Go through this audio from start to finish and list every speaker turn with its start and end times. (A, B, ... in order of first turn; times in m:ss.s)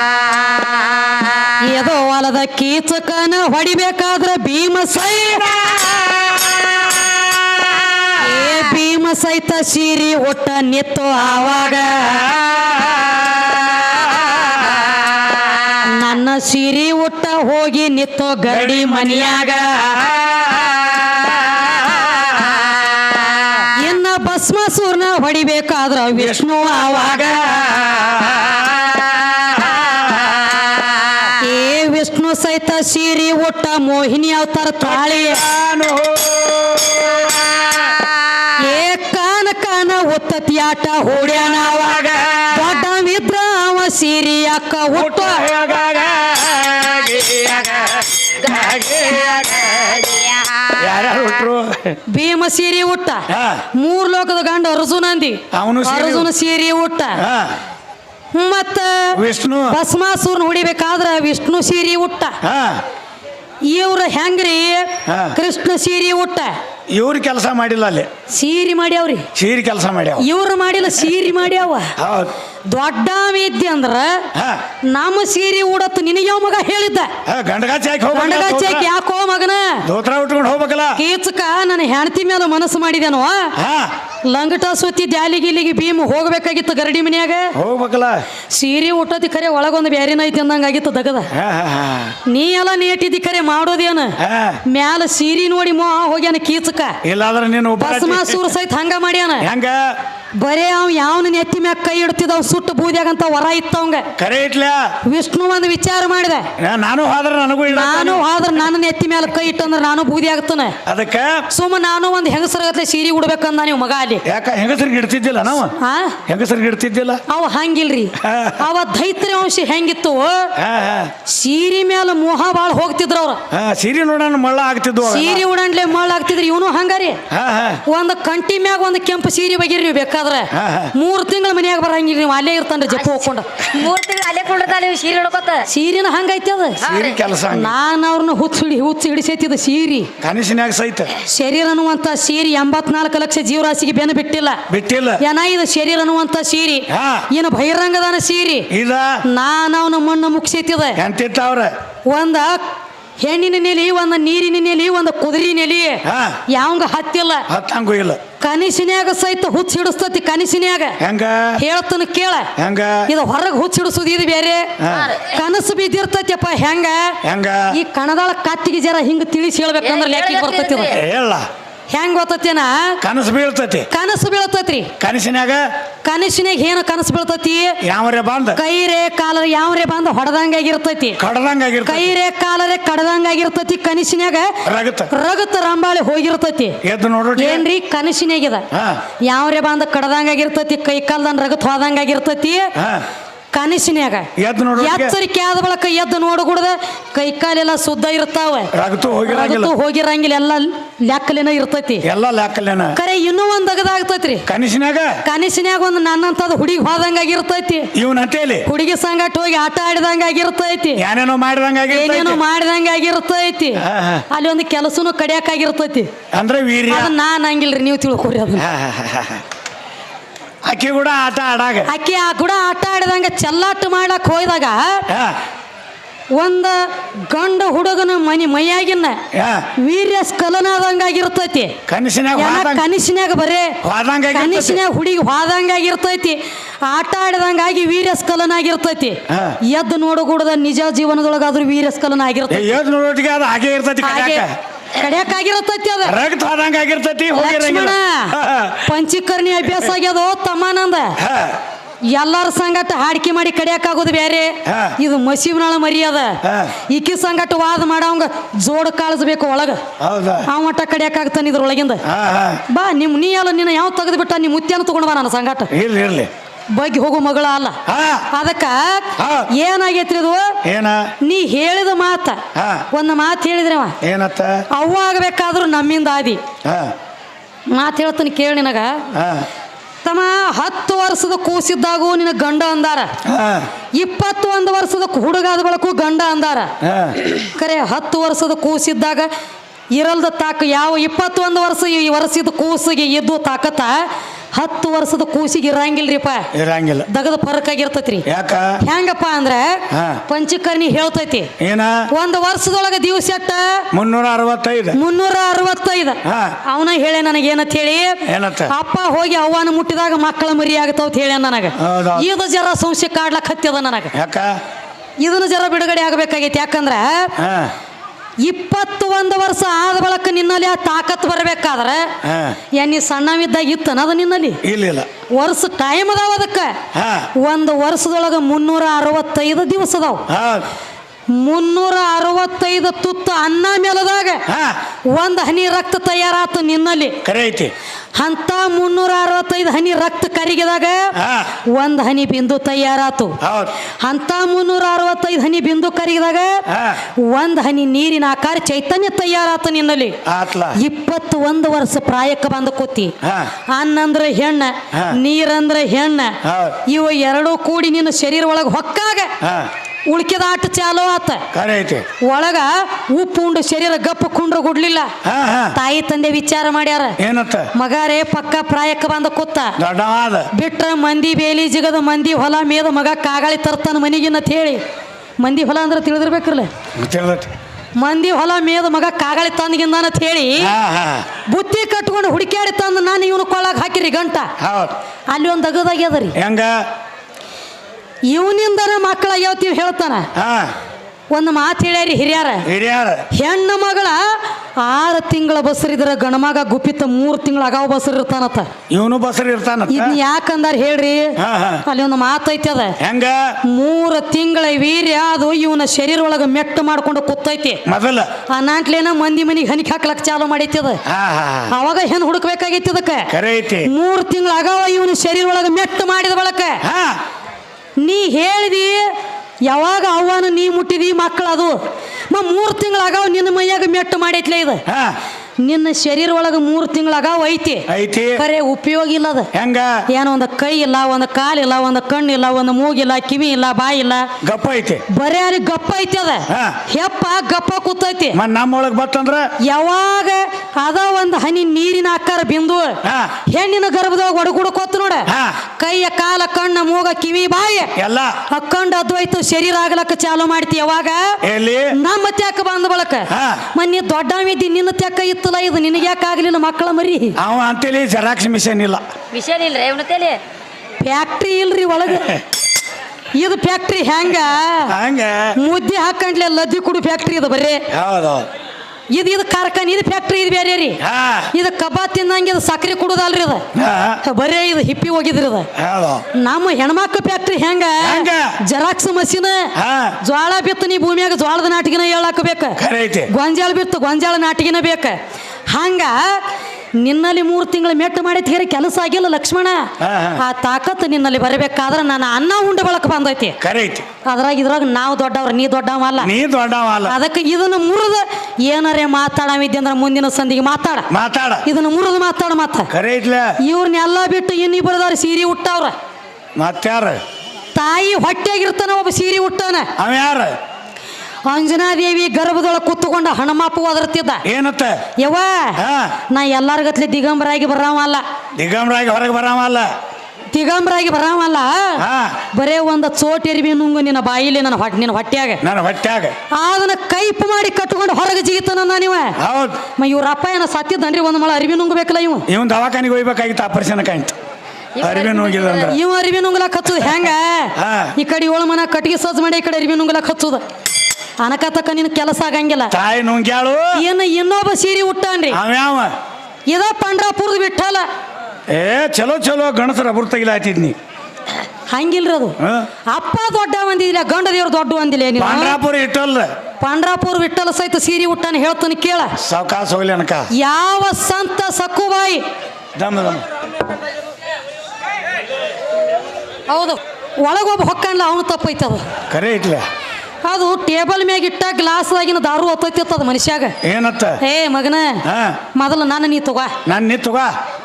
0:01.6-0:05.7 A
0:08.2-0:12.4 A
0:15.8-0:20.0 A
0:18.5-0:19.6 B
0:23.8-0:27.6 A
0:26.9-0:30.6 B
0:31.4-0:35.4 A
0:34.8-0:37.7 B
0:38.6-0:45.5 A
0:42.1-0:42.4 B
0:45.0-0:52.0 B
0:52.1-0:57.2 A
0:53.3-0:53.6 B
0:55.5-0:56.3 B
0:57.2-0:57.6 B
0:58.3-1:02.4 A
0:59.1-0:59.8 B
1:02.4-1:02.8 B
1:03.7-1:06.6 A
1:05.1-1:05.4 B
1:06.9-1:08.1 B
1:08.3-1:09.3 A
1:09.4-1:10.3 B
1:10.2-1:11.9 A
1:12.0-1:12.3 B
1:12.7-1:14.3 A
1:14.3-1:14.6 B
1:14.9-1:17.1 A
1:17.3-1:18.8 B
1:18.1-1:19.8 A
1:19.8-1:21.0 B
1:21.0-1:23.6 A
1:23.6-1:23.9 B
1:24.3-1:27.6 A
1:27.6-1:28.2 B
1:28.5-1:31.3 A
1:31.3-1:32.2 B
1:32.3-1:37.0 A
1:34.2-1:34.6 B
1:37.0-1:38.4 B
1:37.8-1:39.5 A
1:39.4-1:40.0 B
1:40.4-1:44.1 A
1:44.2-1:44.9 B
1:45.0-1:46.5 A
1:46.6-1:48.3 B
1:47.7-1:50.8 A
1:50.9-1:51.5 B
1:51.5-1:54.2 A
1:54.2-1:55.8 B
1:55.8-1:56.2 A
1:56.3-1:57.2 B
1:57.3-2:00.5 A
1:58.2-1:58.6 B
2:00.6-2:01.1 B
2:01.2-2:03.4 A
2:03.5-2:05.4 B
2:05.0-2:07.2 A
2:07.3-2:07.8 B
2:07.9-2:13.7 A
2:10.5-2:10.9 B
2:13.7-2:15.6 C
2:15.7-2:16.9 A
2:16.8-2:17.7 B
2:17.5-2:20.1 A
2:20.2-2:21.2 B
2:21.2-2:24.6 A
2:24.7-2:25.2 B
2:25.2-2:28.7 A
2:26.9-2:27.3 B
2:28.7-2:29.2 B
2:29.3-2:31.0 A
2:31.0-2:31.7 B
2:32.1-2:32.6 A
2:33.2-2:37.5 A
2:36.1-2:36.4 B
2:37.5-2:38.2 B
2:38.4-2:41.0 A
2:41.0-2:41.6 B
2:41.6-2:42.5 A
2:42.6-2:43.1 B
2:43.1-2:47.2 A
2:44.8-2:45.2 B
2:47.2-2:47.7 B
2:47.7-2:51.0 A
2:50.1-2:50.8 C
2:50.9-2:51.5 B
2:51.9-2:53.0 A
2:53.0-2:53.9 B
2:53.9-2:54.9 A
2:55.0-2:55.6 B
2:56.0-2:57.8 A
2:57.8-2:58.6 B
2:58.6-3:01.2 A
3:01.2-3:02.1 B
3:01.8-3:04.6 A
3:04.6-3:05.1 B
3:05.1-3:06.8 A
3:06.8-3:07.6 B
3:07.4-3:08.7 A
3:08.7-3:09.0 B
3:09.2-3:12.7 A
3:12.8-3:13.0 B
3:13.5-3:18.7 A
3:14.4-3:15.2 B
3:18.7-3:19.7 B
3:19.2-3:22.0 A
3:22.0-3:23.0 B
3:23.0-3:24.5 A
3:24.5-3:25.2 B
3:25.2-3:27.9 A
3:27.9-3:28.7 B
3:28.7-3:31.0 A
3:31.0-3:32.4 B
3:31.9-3:36.1 A
3:33.8-3:34.2 B
3:36.3-3:37.1 B
3:36.9-3:38.6 A
3:38.6-3:39.4 B
3:40.6-3:41.9 B
3:41.9-3:45.0 A
3:45.1-3:45.4 B
3:46.3-3:49.2 A
3:49.3-3:49.7 B
3:49.8-3:51.8 A
3:51.9-3:52.8 B
3:52.4-3:53.8 A
3:53.8-3:54.8 B
3:54.3-4:02.7 A
3:59.3-3:59.6 B
4:02.5-4:04.6 B
4:04.0-4:06.2 A
4:06.0-4:08.9 B
4:07.4-4:11.2 A
4:11.2-4:11.6 B
4:12.1-4:19.8 A
4:14.7-4:15.0 B
4:16.4-4:16.7 B
4:20.0-4:20.5 B
4:20.5-4:22.0 A
4:22.1-4:22.6 B
4:22.7-4:25.7 A
4:25.7-4:26.3 B
4:26.7-4:27.8 A
4:27.9-4:28.3 B
4:28.3-4:30.6 A
4:29.2-4:29.5 B
4:30.6-4:31.1 B
4:31.2-4:34.0 A
4:32.5-4:32.9 B
4:34.0-4:34.6 B
4:34.7-4:36.4 A
4:36.6-4:36.9 B
4:37.7-4:39.0 A
4:39.1-4:39.5 B
4:40.0-4:43.1 A
4:43.2-4:43.7 B
4:44.0-4:46.7 A
4:46.8-4:47.2 B
4:47.3-4:49.3 A
4:49.9-4:56.5 A
4:56.5-4:57.1 B
4:57.1-4:58.3 A
4:58.3-4:58.8 B
4:58.8-5:01.5 A
4:59.9-5:00.2 B
5:01.6-5:02.1 B
5:02.1-5:03.9 A
5:03.9-5:05.0 B
5:04.9-5:14.1 A
5:06.2-5:06.6 B
5:08.3-5:08.7 B
5:11.8-5:12.3 B
5:14.1-5:14.6 B
5:15.2-5:17.3 A
5:17.4-5:17.7 B
5:18.4-5:22.1 A
5:22.2-5:22.6 B
5:22.7-5:24.6 A
5:24.6-5:25.1 B
5:25.4-5:26.8 A
5:26.9-5:27.3 B
5:27.4-5:30.2 A
5:30.3-5:30.7 B
5:31.3-5:34.4 A
5:34.5-5:34.8 B
5:35.1-5:37.2 A
5:37.2-5:37.7 B
5:38.2-5:43.4 A
5:41.2-5:41.5 B
5:43.4-5:43.7 B
5:44.0-5:46.6 A
5:46.7-5:47.0 B
5:47.2-5:50.2 A
5:50.2-5:50.8 B
5:50.8-5:53.2 A
5:53.2-5:53.5 B
5:53.7-5:59.3 A
5:54.9-5:55.2 B
5:56.4-5:56.8 B
5:59.4-5:59.7 B
6:00.1-6:01.4 A
6:01.5-6:02.0 B
6:02.2-6:05.1 A
6:05.2-6:05.8 B
6:05.7-6:07.2 A
6:07.2-6:07.7 B
6:07.7-6:09.8 A
6:09.8-6:10.5 B
6:10.5-6:14.8 A
6:15.4-6:16.7 A
6:17.0-6:17.5 B
6:18.0-6:20.7 A
6:20.6-6:21.3 B
6:21.5-6:24.5 A
6:24.6-6:25.0 B
6:25.3-6:26.4 A
6:26.4-6:26.8 B
6:28.3-6:30.3 A
6:30.4-6:30.7 B
6:31.3-6:32.7 A
6:32.7-6:33.3 B
6:33.3-6:38.7 A
6:38.9-6:40.2 B
6:39.9-6:43.0 A
6:41.4-6:41.8 B
6:43.0-6:43.6 B
6:43.6-6:47.8 A
6:47.8-6:48.3 B
6:48.5-6:51.0 A
6:51.1-6:51.7 B
6:51.7-6:53.3 A
6:53.3-6:53.9 B
6:53.8-6:56.8 A
6:56.8-6:57.2 B
6:58.0-6:59.1 A
6:59.7-7:01.8 A
7:02.3-7:04.8 A
7:04.9-7:05.2 B
7:05.6-7:07.9 A
7:07.9-7:08.4 B
7:08.4-7:09.5 A
7:09.5-7:10.0 B
7:10.1-7:14.3 A
7:14.4-7:15.0 B
7:15.1-7:18.4 A
7:16.5-7:16.8 B
7:18.3-7:19.5 B
7:19.6-7:27.9 A
7:23.0-7:23.4 B
7:25.3-7:25.6 B
7:28.0-7:28.4 B
7:28.5-7:31.4 A
7:31.4-7:32.0 B
7:31.9-7:37.4 A
7:33.3-7:33.6 B
7:37.4-7:39.0 B
7:39.3-7:40.4 C
7:41.0-7:42.4 A
7:43.4-7:44.9 A
7:44.9-7:45.6 B
7:45.6-7:47.8 A
7:47.9-7:48.5 B
7:49.1-7:51.0 A
7:51.0-7:51.5 B
7:51.5-7:53.6 A
7:53.7-7:54.2 B
7:54.2-7:55.7 A
7:55.8-7:56.2 B
7:56.3-8:02.8 A
7:58.0-7:58.6 B
7:59.8-8:00.2 B
8:02.8-8:03.3 B
8:03.3-8:05.2 A
8:05.7-8:06.4 A
8:07.0-8:13.6 A
8:10.0-8:10.4 B
8:13.6-8:14.1 B
8:14.2-8:16.3 A
8:16.2-8:17.2 B
8:17.0-8:21.1 A
8:21.1-8:21.7 B
8:21.6-8:22.9 A
8:22.9-8:23.5 B
8:23.6-8:26.0 A
8:26.6-8:27.2 B
8:27.8-8:29.9 A
8:30.0-8:30.5 B
8:31.5-8:34.4 A
8:34.4-8:35.0 B
8:35.2-8:35.8 A
8:35.8-8:36.1 B
8:36.3-8:38.2 A
8:38.6-8:39.9 B
8:40.5-8:45.6 A
8:42.0-8:42.4 B
8:45.6-8:46.4 B
8:46.5-8:49.4 A
8:49.4-8:49.8 B
8:50.0-8:52.4 A
8:52.5-8:54.4 B
8:55.0-8:56.0 B
8:55.1-8:55.7 C
8:55.7-9:00.6 A
8:57.8-8:58.1 B
9:01.4-9:02.9 A
9:02.9-9:04.0 B
9:04.0-9:05.6 A
9:05.5-9:06.1 B
9:06.7-9:08.1 A
9:08.7-9:11.0 B
9:11.9-9:15.8 A
9:12.6-9:12.9 B
9:15.4-9:16.5 B
9:16.8-9:19.3 A
9:19.4-9:20.5 B
9:20.5-9:22.4 A
9:23.0-9:23.4 B
9:26.7-9:29.1 A
9:29.3-9:29.8 B
9:30.4-9:33.8 A
9:33.8-9:34.4 B
9:34.4-9:36.7 A
9:35.3-9:35.6 B
9:36.9-9:37.5 B